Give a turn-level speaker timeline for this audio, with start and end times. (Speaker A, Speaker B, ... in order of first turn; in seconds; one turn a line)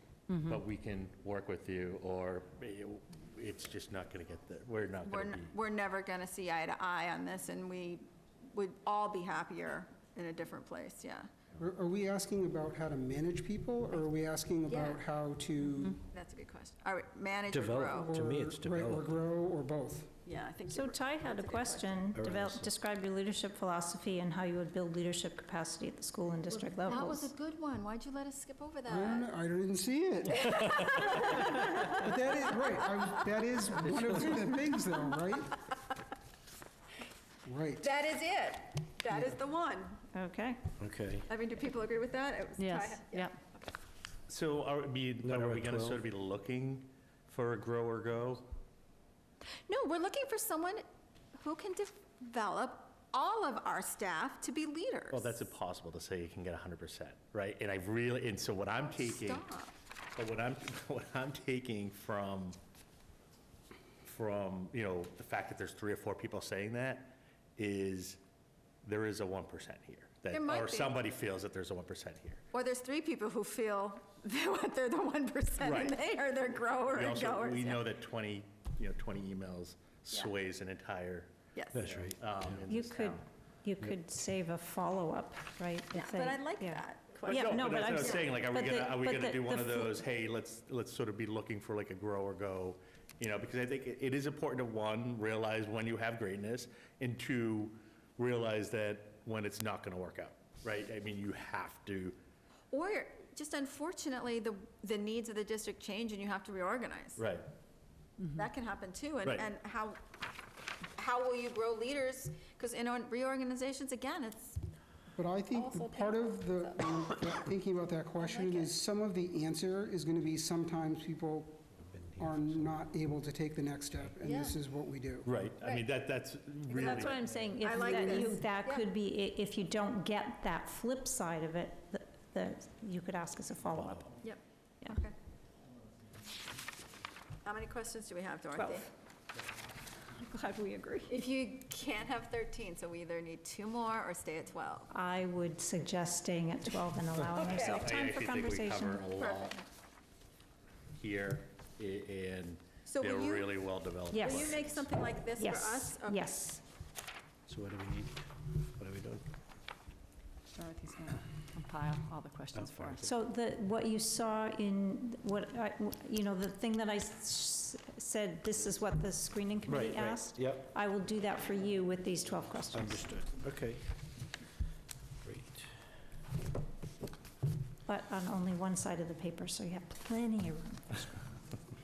Speaker A: 0.3-0.6
Speaker B: 0.4-5.5
Speaker C: 5.0-11.3
Speaker D: 11.6-16.0
Speaker C: 14.7-15.0
Speaker C: 16.0-18.1
Speaker E: 17.5-19.2
Speaker D: 17.9-20.1
Speaker C: 20.2-22.0
Speaker F: 20.7-27.3
Speaker E: 22.1-22.7
Speaker C: 26.5-29.3
Speaker D: 28.9-30.5
Speaker C: 30.3-31.9
Speaker B: 30.6-31.1
Speaker D: 31.9-35.5
Speaker D: 37.4-37.9
Speaker C: 37.8-40.0
Speaker F: 40.1-40.6
Speaker E: 40.8-41.3
Speaker C: 41.3-43.7
Speaker A: 42.6-43.4
Speaker B: 44.3-48.5
Speaker E: 45.2-46.0
Speaker C: 49.7-50.8
Speaker C: 51.4-55.3
Speaker B: 55.1-59.5
Speaker C: 58.8-59.7
Speaker B: 60.1-62.6
Speaker B: 64.0-68.2
Speaker B: 68.8-72.4
Speaker C: 70.3-71.0
Speaker C: 72.5-77.8
Speaker B: 75.6-76.0
Speaker B: 76.9-83.2
Speaker C: 81.5-81.8
Speaker E: 81.7-82.6
Speaker F: 82.7-90.0
Speaker C: 85.9-88.2
Speaker B: 87.3-102.2
Speaker C: 102.7-107.2
Speaker B: 107.2-107.5
Speaker C: 108.3-110.0
Speaker B: 109.2-109.5
Speaker C: 111.0-114.6
Speaker D: 115.1-121.7
Speaker C: 115.5-117.1
Speaker C: 118.2-118.7
Speaker E: 121.7-122.9
Speaker D: 122.2-125.3
Speaker C: 124.2-124.5
Speaker B: 125.2-127.3
Speaker C: 125.6-125.8
Speaker F: 126.7-134.2
Speaker C: 126.7-128.9
Speaker D: 127.8-128.3
Speaker C: 134.2-135.1
Speaker C: 137.4-138.9
Speaker F: 138.5-138.8
Speaker F: 140.1-141.2
Speaker C: 141.1-144.9
Speaker F: 144.9-149.1
Speaker B: 147.2-149.6
Speaker C: 149.1-149.6
Speaker B: 151.0-154.9
Speaker C: 152.9-153.5
Speaker F: 154.1-154.7
Speaker C: 154.2-156.3
Speaker F: 155.4-156.6
Speaker E: 157.5-158.2
Speaker E: 158.8-159.3
Speaker A: 160.5-163.0
Speaker E: 162.5-163.2
Speaker F: 163.1-173.1
Speaker E: 169.7-170.7
Speaker E: 172.7-173.9
Speaker E: 175.2-175.7
Speaker F: 177.8-181.2